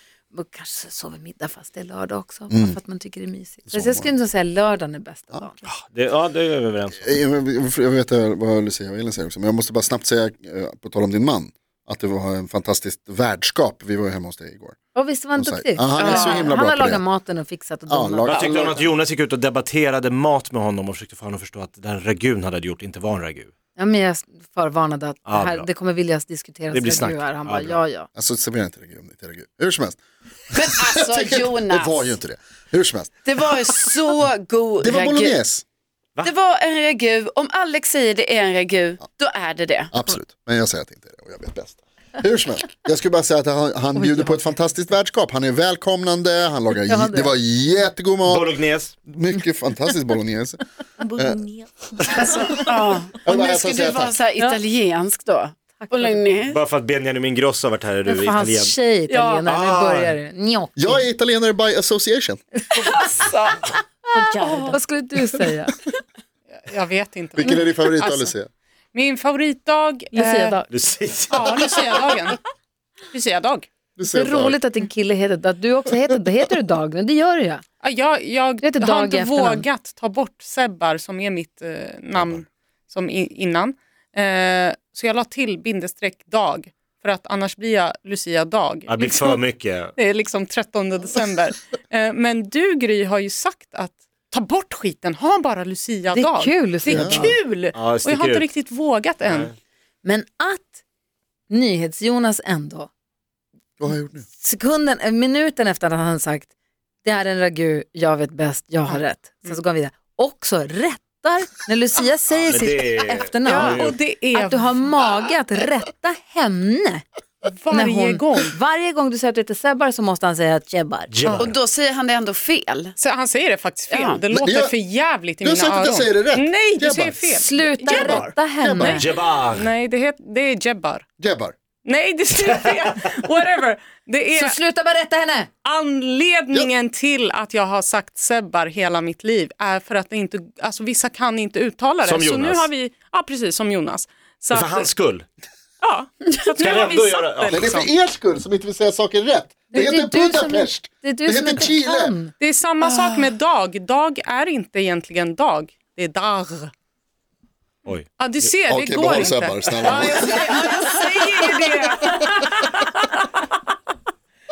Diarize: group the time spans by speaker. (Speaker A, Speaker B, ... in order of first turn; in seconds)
Speaker A: 0.3-5.6, 14.9-18.9, 23.8-28.1, 43.9-44.8, 46.8-47.3, 55.8-56.3, 58.0-61.0, 64.4-65.7, 70.1-70.7, 74.1-77.6, 78.6-79.7, 96.1-97.4, 100.0-100.8, 101.5-102.9, 104.3-106.5, 107.0-117.0, 117.7-121.1, 127.3-129.0, 134.3-135.5, 149.7-152.3
Speaker B: 2.5-2.8, 3.7-4.1, 7.0-14.8, 15.3-17.0, 17.9-18.4, 28.1-30.0, 30.5-33.1, 34.8-35.6, 39.9-48.5, 49.1-50.6, 51.1-51.5, 53.2-54.1, 60.8-62.4, 67.3-68.5, 74.0-74.6, 82.2-82.4, 96.9-97.3, 103.8-104.3, 124.3-124.7, 125.4-127.3, 127.8-129.0, 131.2-131.5, 147.5-152.2, 158.7-160.3
Speaker C: 5.6-7.2, 18.3-23.5, 25.2-25.6, 26.7-27.8, 48.2-48.9, 56.5-58.7, 59.4-60.1, 70.7-72.1, 88.9-89.9, 97.7-98.5, 99.2-99.5, 112.3-114.0, 121.1-121.6, 129.0-129.7, 142.0-142.7, 144.5-145.2, 146.6-147.6, 157.8-158.5
Speaker D: 16.0-16.4, 18.3-18.6, 30.5-32.1, 33.2-35.4, 36.2-39.9, 52.0-56.6, 59.1-59.4, 62.7-64.8, 121.3-122.9, 123.9-124.2, 160.9-161.4
Speaker E: 66.5-68.3, 68.9-70.5, 71.3-72.4, 73.1-73.7, 77.8-89.4, 90.0-99.5, 113.4-114.9, 117.4-118.5, 121.2-121.5, 123.0-131.0, 131.8-134.6, 135.6-144.9, 145.8-147.9, 152.4-156.7, 158.2-163.5